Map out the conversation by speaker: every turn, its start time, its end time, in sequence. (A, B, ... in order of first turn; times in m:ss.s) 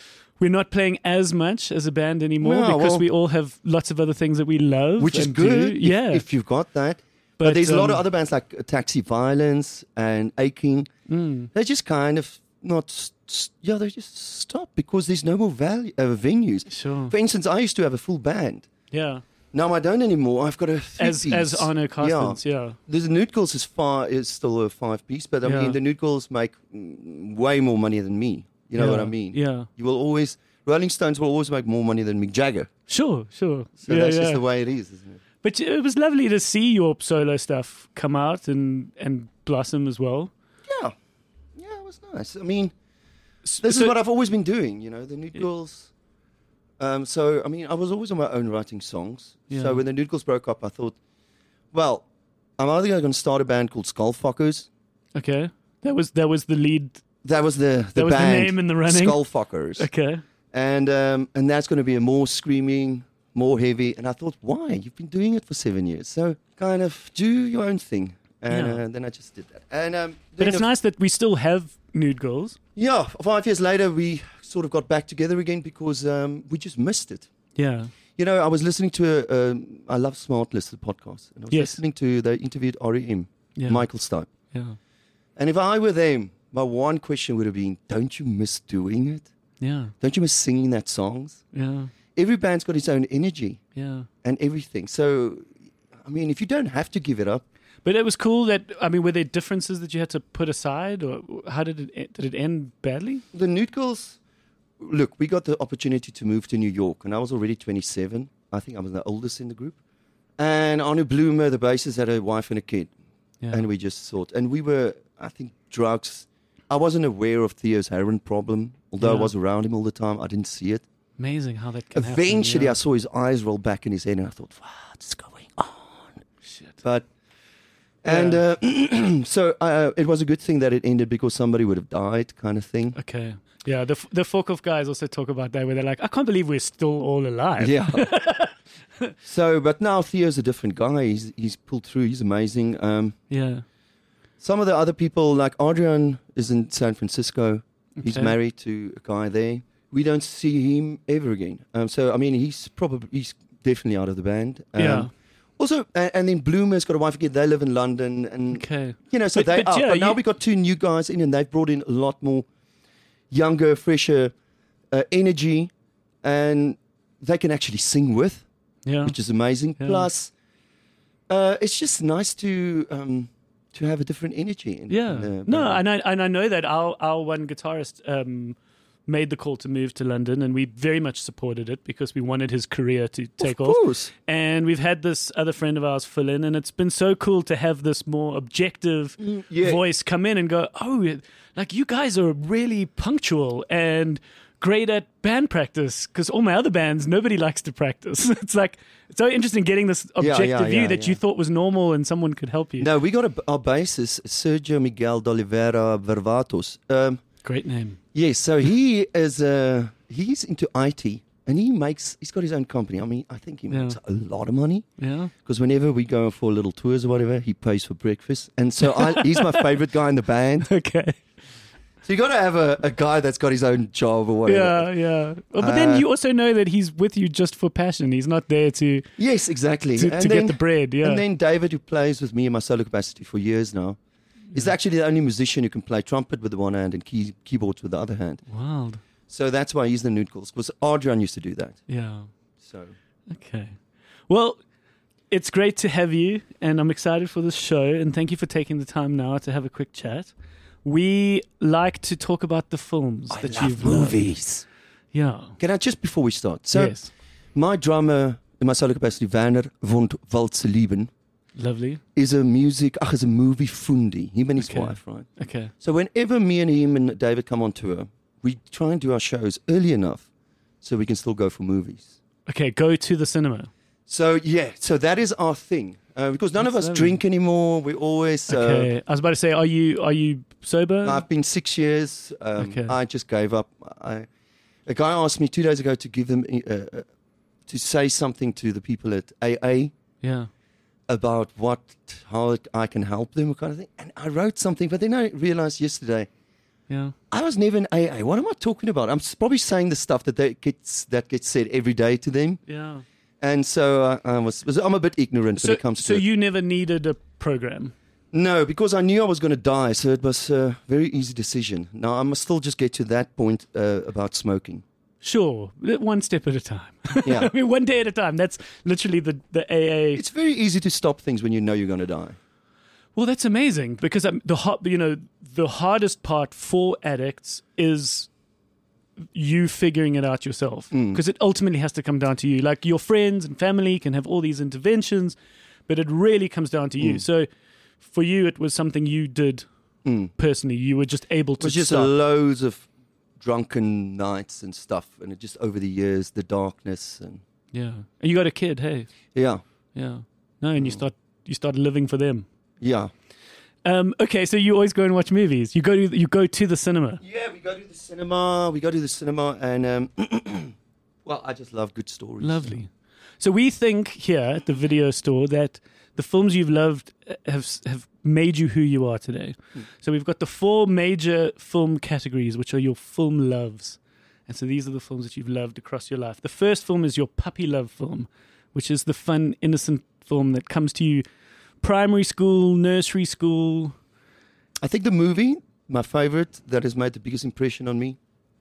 0:00.4-0:06.3 A
0:02.4-0:03.1 B
0:05.0-0:10.9 B
0:07.4-0:08.0 A
0:11.1-0:11.5 A
0:11.5-0:18.7 B
0:16.7-0:17.1 A
0:18.9-0:19.2 A
0:19.5-0:32.7 B
0:21.0-0:22.8 A
0:25.4-0:25.8 A
0:28.8-0:29.7 A
0:32.9-0:34.4 A
0:33.8-0:35.2 B
0:35.4-0:40.3 A
0:40.7-0:40.9 B
0:41.6-0:42.7 B
0:43.4-0:44.0 A
0:43.6-0:45.9 B
0:46.8-0:51.0 B
0:49.5-0:49.8 A
0:51.7-0:52.1 B
0:52.6-0:54.7 B
0:55.1-0:57.0 A
0:57.2-0:59.9 B
0:58.0-0:59.2 A
0:59.8-1:00.2 A
1:00.5-1:10.7 B
1:08.5-1:08.8 A
1:10.4-1:12.6 A
1:12.8-1:17.3 B
1:17.6-1:17.9 A
1:18.2-1:24.3 B
1:21.5-1:21.8 A
1:23.6-1:23.8 A
1:24.5-1:24.8 A
1:25.4-1:29.3 B
1:29.6-1:29.9 A
1:30.0-1:31.4 B
1:31.5-1:31.9 A
1:32.2-1:33.6 B
1:33.8-1:34.1 A
1:34.2-1:37.4 B
1:37.8-1:43.2 A
1:43.3-1:44.2 B
1:44.8-1:49.8 B
1:50.4-1:52.9 B
1:53.5-2:00.8 B
1:59.0-1:59.3 A
2:01.2-2:02.8 A
2:01.9-2:06.1 B
2:06.4-2:06.8 A
2:06.8-2:07.1 B
2:08.0-2:13.0 B
2:08.1-2:08.4 A
2:13.0-2:18.5 A
2:17.6-2:18.1 B
2:19.2-2:23.2 B
2:23.3-2:23.6 A
2:24.4-2:42.5 B
2:28.0-2:28.4 A
2:34.8-2:35.1 A
2:38.5-2:40.2 A
2:43.3-2:44.3 B
2:44.9-2:45.7 B
2:46.2-2:48.4 B
2:48.9-2:49.2 A
2:49.0-2:50.3 B
2:49.8-2:50.1 A
2:51.3-2:55.8 B
2:54.9-3:22.9 A
3:03.4-3:04.1 B
3:09.2-3:09.8 B
3:20.2-3:21.2 B
3:22.8-3:27.2 B
3:27.4-3:28.0 A
3:28.1-3:34.9 B
3:33.7-3:34.0 A
3:35.0-3:35.3 A
3:35.4-3:40.7 B
3:38.9-3:39.6 A
3:40.7-3:41.2 A
3:42.0-3:44.9 B
3:44.5-3:49.1 A
3:45.6-3:46.1 B
3:49.2-3:54.0 B
3:50.0-3:51.2 A
3:54.5-3:58.4 B
3:58.5-3:59.0 A
3:59.3-4:01.8 B
4:01.9-4:02.3 A
4:02.6-4:02.9 B
4:03.3-4:03.8 A
4:04.3-4:04.6 A
4:05.3-4:10.3 A
4:10.8-4:14.2 A
4:13.3-4:14.6 B
4:15.1-4:15.6 A
4:15.6-4:17.0 B
4:16.7-4:17.1 A
4:17.6-4:21.1 B
4:21.6-4:22.0 A
4:22.2-4:30.3 B
4:24.6-4:25.7 A
4:30.8-4:32.1 B
4:32.5-4:33.7 A
4:34.1-4:38.9 B
4:36.6-4:37.2 A
4:38.5-4:41.2 A
4:41.0-4:44.3 B
4:42.6-4:43.0 A
4:44.9-4:47.1 B
4:47.7-4:49.9 B
4:50.2-4:50.5 A
4:51.1-4:56.3 B
4:56.9-4:57.2 A
4:57.3-5:02.6 B
5:02.7-5:03.0 A
5:03.4-5:06.2 B
5:05.6-5:07.9 A
5:08.3-5:14.8 B
5:15.2-5:20.2 A
5:17.2-5:17.5 B
5:20.2-5:22.4 B
5:23.2-5:28.3 A
5:29.3-5:35.4 A
5:30.9-5:31.2 B
5:35.9-5:37.5 A
5:38.0-5:39.7 A
5:40.0-5:40.3 B
5:40.4-5:42.1 A
5:41.6-5:42.9 B
5:43.4-5:47.4 B
5:47.7-5:49.1 A
5:49.3-5:49.6 B
5:49.9-5:52.5 A
5:50.8-5:51.0 B
5:52.8-5:53.1 B
5:53.8-5:57.2 A
5:57.2-6:02.8 B
6:02.4-6:21.2 A
6:21.8-6:24.0 A
6:24.8-6:28.2 B